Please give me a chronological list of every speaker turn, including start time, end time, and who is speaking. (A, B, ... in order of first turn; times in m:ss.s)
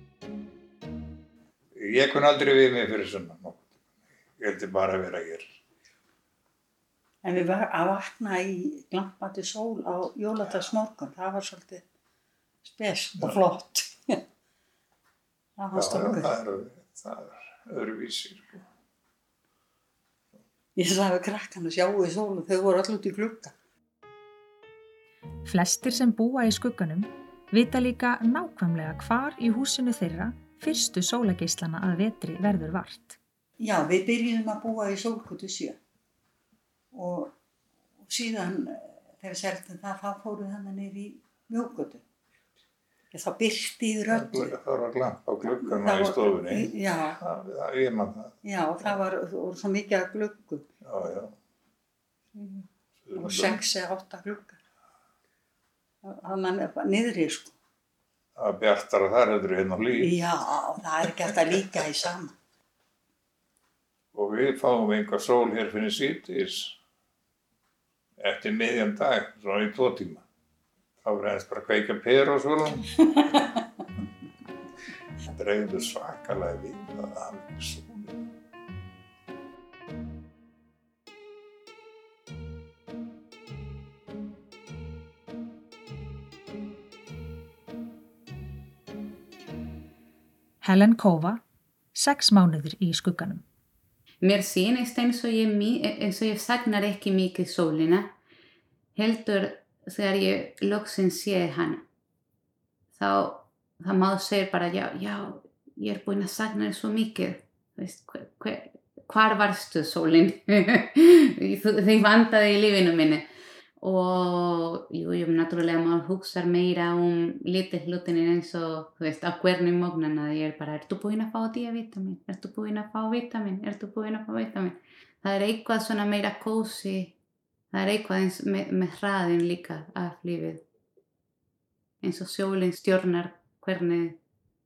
0:01.8-0:03.7 A
0:04.4-0:05.6 A
0:07.2-0:11.8 B
0:12.6-0:14.2 B
0:15.6-0:16.3 B
0:15.7-0:18.6 A
0:20.8-0:23.5 B
0:25.4-0:33.2 C
0:33.6-0:35.8 B
0:36.9-0:37.3 B
0:38.0-0:42.0 B
0:43.1-0:44.5 B
0:44.1-0:48.4 A
0:45.4-0:47.2 B
0:48.4-0:50.6 B
0:50.8-0:51.3 A
0:53.1-0:53.6 A
0:53.1-0:54.6 B
0:56.0-0:57.6 B
0:58.4-1:00.2 A
0:59.9-1:02.3 B
1:01.1-1:01.7 A
1:04.1-1:06.8 A
1:08.2-1:10.2 A
1:11.0-1:12.8 A
1:15.3-1:18.2 A
1:30.6-1:31.4 C
1:31.9-1:33.4 C
1:34.2-1:38.1 D
1:39.0-1:41.8 D
1:42.9-1:53.3 D
1:53.8-2:07.1 D
2:07.7-2:10.6 D
2:12.0-2:14.2 D